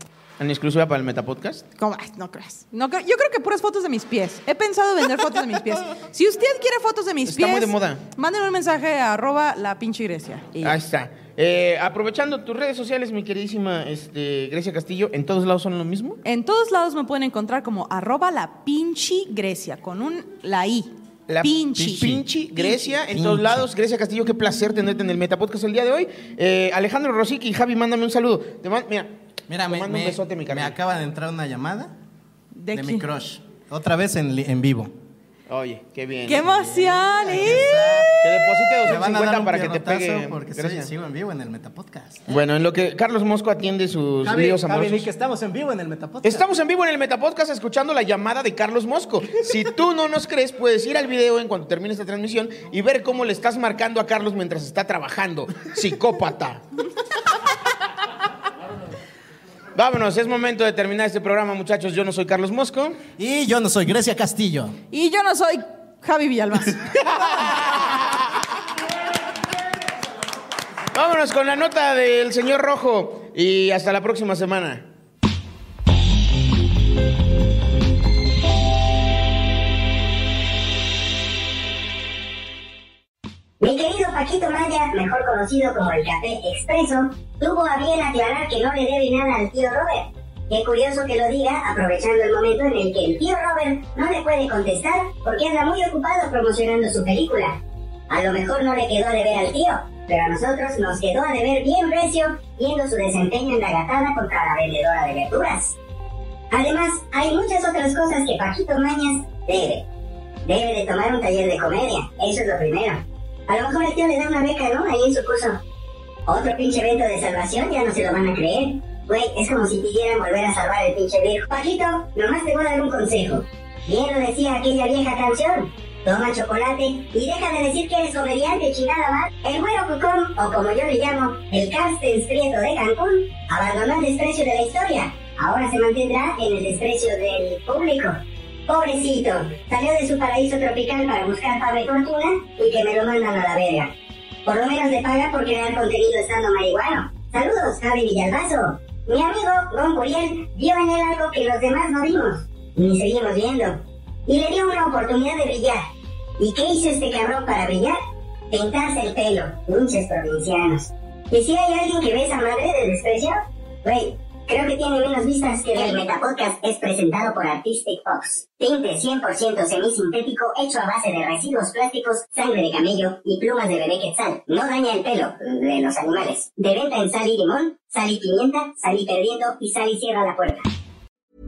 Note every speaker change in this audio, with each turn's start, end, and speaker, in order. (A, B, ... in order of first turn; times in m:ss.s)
0:00.4-0:01.6 A
0:01.8-0:10.8 B
0:07.2-0:08.0 A
0:10.6-0:16.2 A
0:16.2-0:22.8 B
0:21.3-0:29.1 A
0:21.7-0:22.3 C
0:23.1-0:23.7 C
0:29.5-0:31.9 C
0:29.7-0:30.8 A
0:32.5-0:33.1 B
0:32.7-0:34.9 C
0:35.5-0:36.7 A
0:36.3-0:38.1 B
0:36.6-0:38.1 C
0:37.3-0:37.6 A
0:38.2-0:40.9 A
0:38.8-0:42.3 C
0:42.3-0:45.1 A
0:44.2-0:46.5 C
0:46.2-0:56.6 A
0:59.7-1:03.0 A
1:03.2-1:04.8 C
1:04.9-1:06.8 B
1:07.0-1:08.0 A
1:10.9-1:14.8 A
1:23.6-1:45.8 D
1:46.5-1:49.8 D
1:50.4-1:55.6 D
1:56.3-2:23.9 D
2:24.4-2:38.0 D
2:38.5-3:00.7 D